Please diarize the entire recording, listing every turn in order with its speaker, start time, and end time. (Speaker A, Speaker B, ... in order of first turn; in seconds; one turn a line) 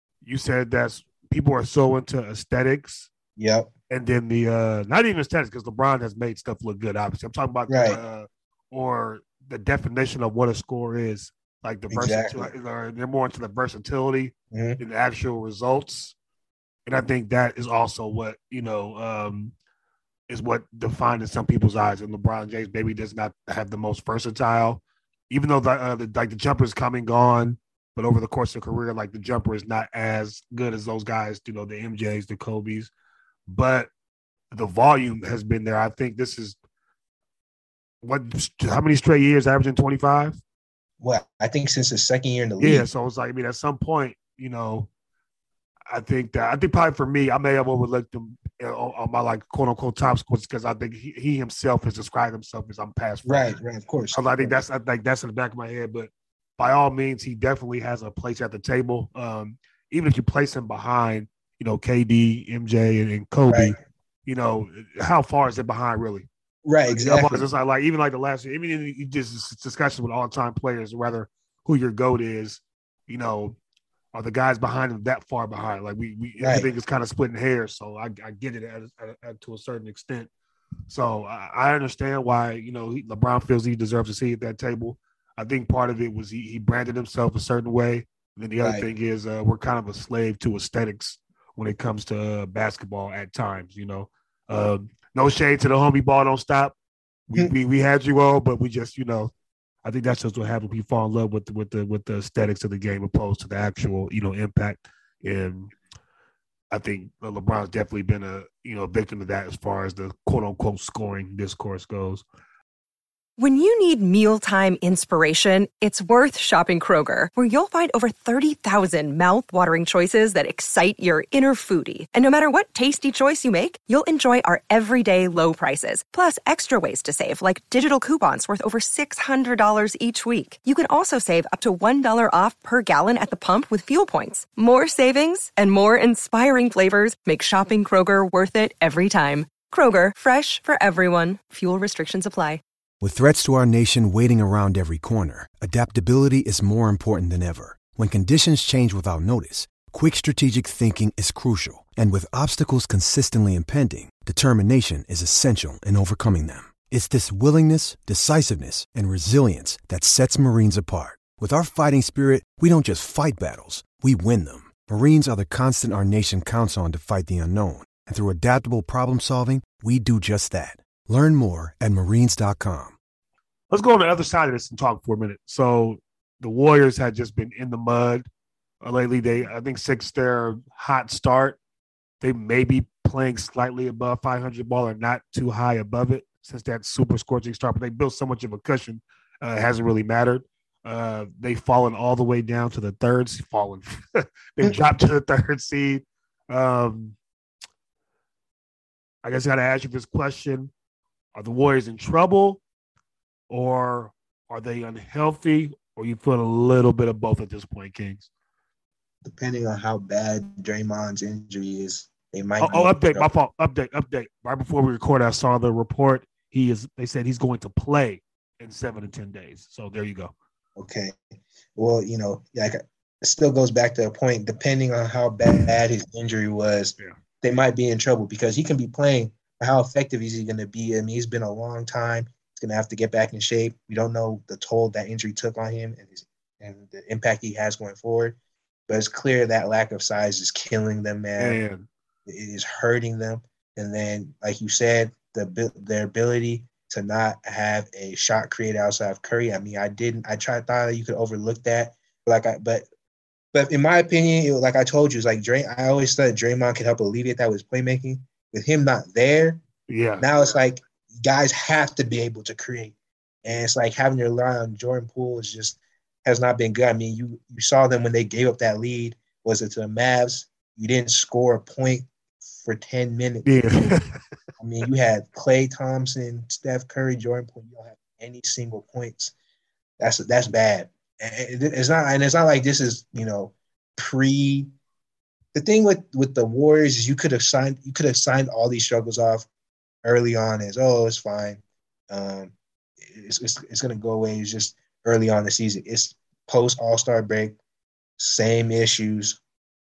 Speaker A: 0.2-3.1
Speaker B: 3.4-3.7
Speaker A: 3.9-16.1
Speaker B: 7.7-8.0
Speaker B: 11.9-12.5
Speaker B: 14.5-14.8
Speaker A: 16.9-19.5
Speaker A: 20.3-32.9
Speaker A: 33.5-33.9
Speaker A: 34.5-36.6
Speaker A: 38.0-40.4
Speaker B: 41.0-42.9
Speaker A: 42.6-44.9
Speaker A: 45.9-53.5
Speaker B: 53.2-54.6
Speaker A: 54.1-63.7
Speaker A: 64.2-66.3
Speaker B: 66.7-67.5
Speaker A: 67.0-73.6
Speaker A: 74.1-80.3
Speaker B: 76.4-76.7
Speaker A: 80.9-96.7
Speaker B: 88.6-88.9
Speaker A: 97.3-99.3
Speaker A: 99.8-105.7
Speaker A: 106.7-112.2
Speaker C: 113.4-142.6
Speaker D: 143.0-172.9
Speaker A: 173.7-178.3
Speaker A: 178.8-181.6
Speaker A: 182.2-197.2
Speaker A: 199.2-200.7
Speaker A: 201.3-202.6
Speaker A: 203.5-208.3
Speaker B: 209.2-213.3
Speaker A: 212.6-220.3
Speaker B: 220.8-221.2
Speaker B: 221.8-238.4
Speaker B: 238.9-241.6
Speaker A: 241.4-241.9
Speaker B: 242.3-252.8
Speaker B: 253.5-259.6
Speaker A: 259.9-260.2
Speaker B: 260.2-273.9
Speaker A: 273.4-274.1
Speaker B: 274.6-279.3
Speaker B: 280.0-284.7
Speaker B: 285.5-289.4
Speaker B: 290.0-297.6
Speaker B: 298.2-299.4